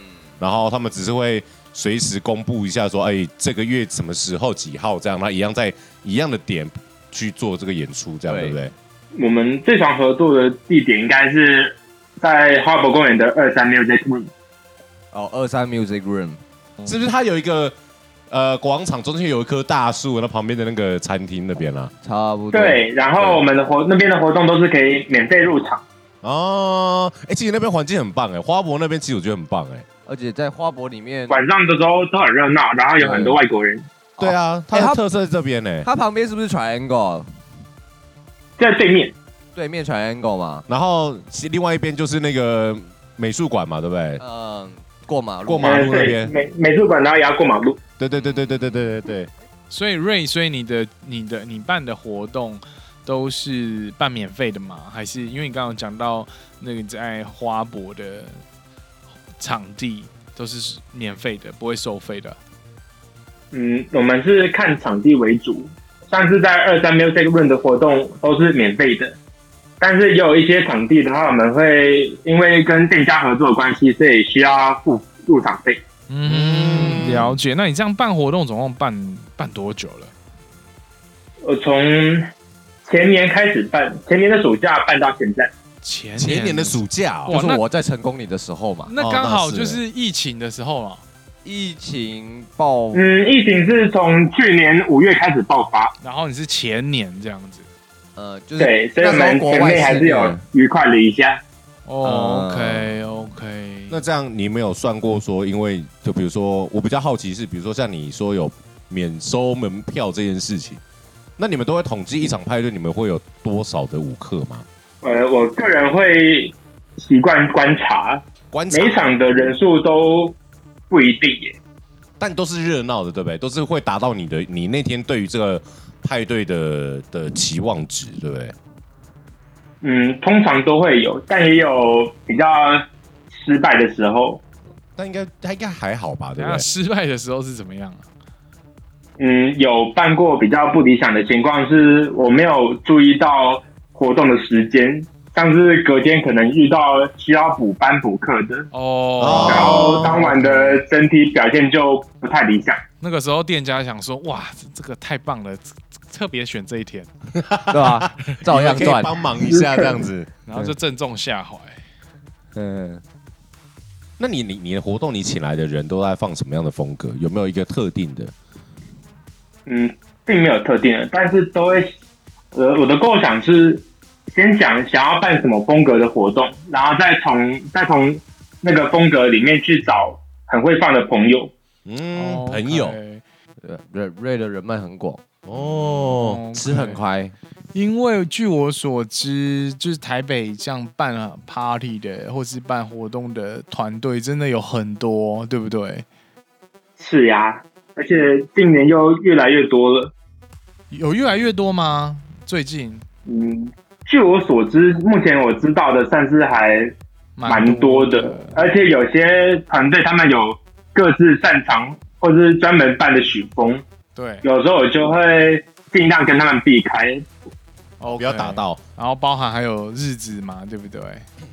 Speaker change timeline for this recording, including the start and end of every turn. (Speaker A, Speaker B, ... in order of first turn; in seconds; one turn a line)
Speaker A: 0.4-8.7
Speaker B: 8.3-8.6
Speaker C: 9.1-14.3
Speaker B: 15.1-16.4
Speaker A: 16.8-17.7
Speaker A: 18.3-21.9
Speaker B: 22.0-23.4
Speaker C: 22.5-25.8
Speaker A: 26.2-29.8
Speaker B: 30.1-31.4
Speaker C: 31.3-33.9
Speaker B: 33.0-33.3
Speaker A: 34.2-35.9
Speaker B: 34.2-35.0
Speaker B: 35.8-37.3
Speaker C: 38.6-39.1
Speaker B: 39.5-40.6
Speaker A: 40.7-44.2
Speaker B: 44.2-46.0
Speaker A: 45.4-46.3
Speaker C: 45.6-47.8
Speaker A: 48.0-49.3
Speaker D: 49.7-58.4
Speaker D: 59.4-62.4
Speaker C: 63.5-69.2
Speaker C: 69.8-75.8
Speaker D: 76.1-80.1
Speaker A: 76.2-77.4
Speaker C: 81.4-82.3
Speaker C: 82.8-85.5
Speaker D: 85.8-87.6
Speaker A: 86.2-87.3
Speaker B: 87.3-88.9
Speaker D: 88.9-91.0
Speaker A: 89.0-89.8
Speaker B: 91.4-93.0
Speaker C: 92.9-95.9
Speaker D: 96.0-97.7
Speaker B: 98.2-100.4
Speaker C: 98.6-101.4
Speaker D: 101.9-104.0
Speaker B: 102.0-102.9
Speaker A: 103.9-110.8
Speaker A: 111.4-114.7
Speaker C: 115.0-120.3
Speaker A: 118.5-119.1
Speaker C: 120.9-121.6
Speaker A: 122.2-128.5
Speaker C: 129.8-134.4
Speaker A: 135.0-136.6
Speaker D: 136.4-138.1
Speaker C: 139.2-148.7
Speaker D: 148.7-150.8
Speaker A: 149.2-150.2
Speaker C: 149.4-152.8
Speaker D: 153.0-157.1
Speaker A: 157.3-160.3
Speaker B: 157.7-159.1
Speaker C: 159.5-159.9
Speaker D: 160.5-161.8
Speaker B: 162.5-163.0
Speaker A: 164.2-168.3
Speaker C: 169.7-171.9
Speaker C: 172.5-181.5
Speaker A: 181.8-183.0
Speaker D: 182.2-183.2
Speaker B: 183.6-185.2
Speaker A: 185.4-186.4
Speaker D: 185.9-187.0
Speaker B: 186.5-187.3
Speaker D: 187.7-196.0
Speaker C: 197.0-200.1
Speaker D: 200.9-203.0
Speaker C: 203.2-206.9
Speaker D: 207.4-208.6
Speaker C: 207.4-213.8
Speaker D: 214.1-214.4
Speaker C: 214.4-217.2
Speaker D: 218.0-221.2
Speaker A: 218.1-218.8